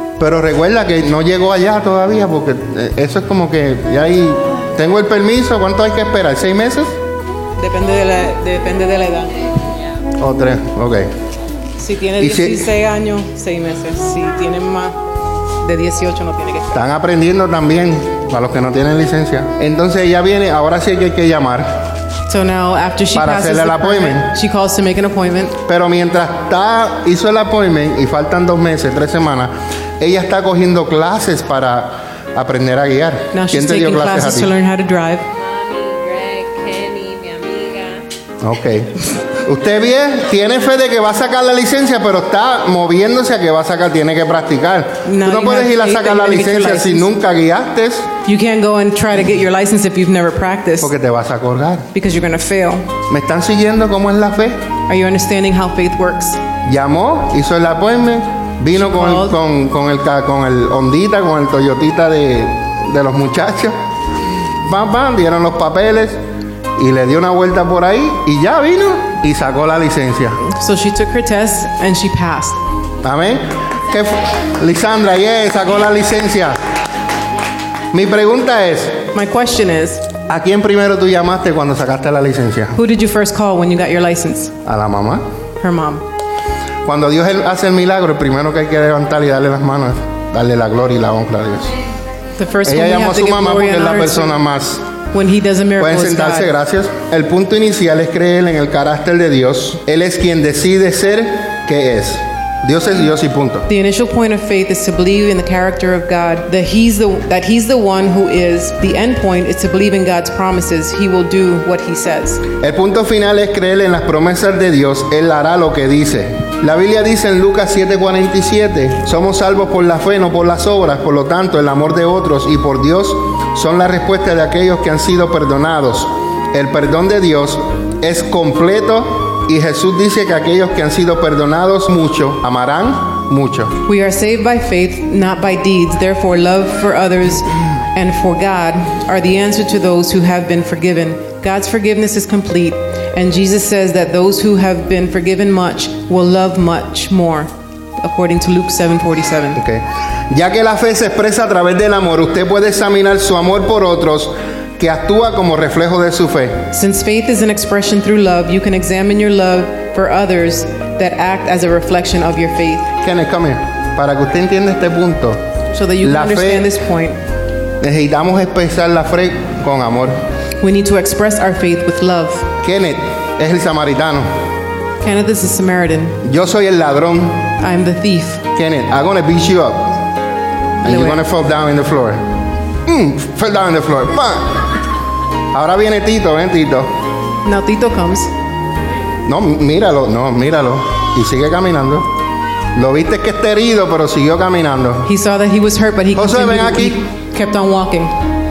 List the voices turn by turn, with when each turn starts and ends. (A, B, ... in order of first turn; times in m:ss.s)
0:00.2-0:07.0 A
0:07.6-0:09.4 B
0:10.2-0:11.1 A
0:11.8-0:15.0 B
0:12.2-0:12.7 A
0:15.6-0:16.8 B
0:16.7-0:21.8 A
0:22.3-0:25.6 B
0:23.1-0:24.3 A
0:25.6-0:34.5 A
0:33.3-0:35.2 B
0:35.3-0:38.0 C
0:38.4-0:48.1 A
0:45.0-0:47.1 B
0:48.2-0:50.9 B
0:50.8-0:51.9 A
0:51.9-0:52.9 B
0:53.1-0:54.6 A
0:54.9-0:56.4 B
0:56.6-1:03.8 A
0:58.7-0:59.4 B
1:04.6-1:06.2 A
1:06.8-1:10.4 A
1:10.4-1:12.6 B
1:13.0-1:16.6 A
1:17.9-1:19.1 A
1:19.1-1:20.1 B
1:20.3-1:22.8 A
1:22.7-1:24.6 B
1:24.6-1:25.2 A
1:25.6-1:26.0 B
1:26.8-1:31.8 A
1:32.4-1:34.4 B
1:32.6-1:34.8 A
1:35.1-1:36.5 B
1:35.8-1:43.7 A
1:43.7-1:52.4 B
1:52.6-2:13.8 A
2:13.8-2:29.6 B
2:29.6-2:36.7 A
2:36.7-2:43.0 B
2:43.0-2:45.4 A
2:45.7-2:47.2 B
2:46.0-2:46.7 A
2:47.8-2:50.2 A
2:50.6-2:52.5 B
2:52.6-2:54.3 A
2:55.0-2:56.2 B
2:56.2-2:57.5 A
2:57.6-2:58.4 B
2:58.5-3:00.0 A
3:00.8-3:01.2 B
3:00.8-3:02.2 A
3:02.8-3:04.6 A
3:05.5-3:06.9 A
3:07.4-3:08.3 B
3:09.2-3:12.1 A
3:12.7-3:15.1 A
3:15.0-3:18.2 B
3:16.1-3:17.0 A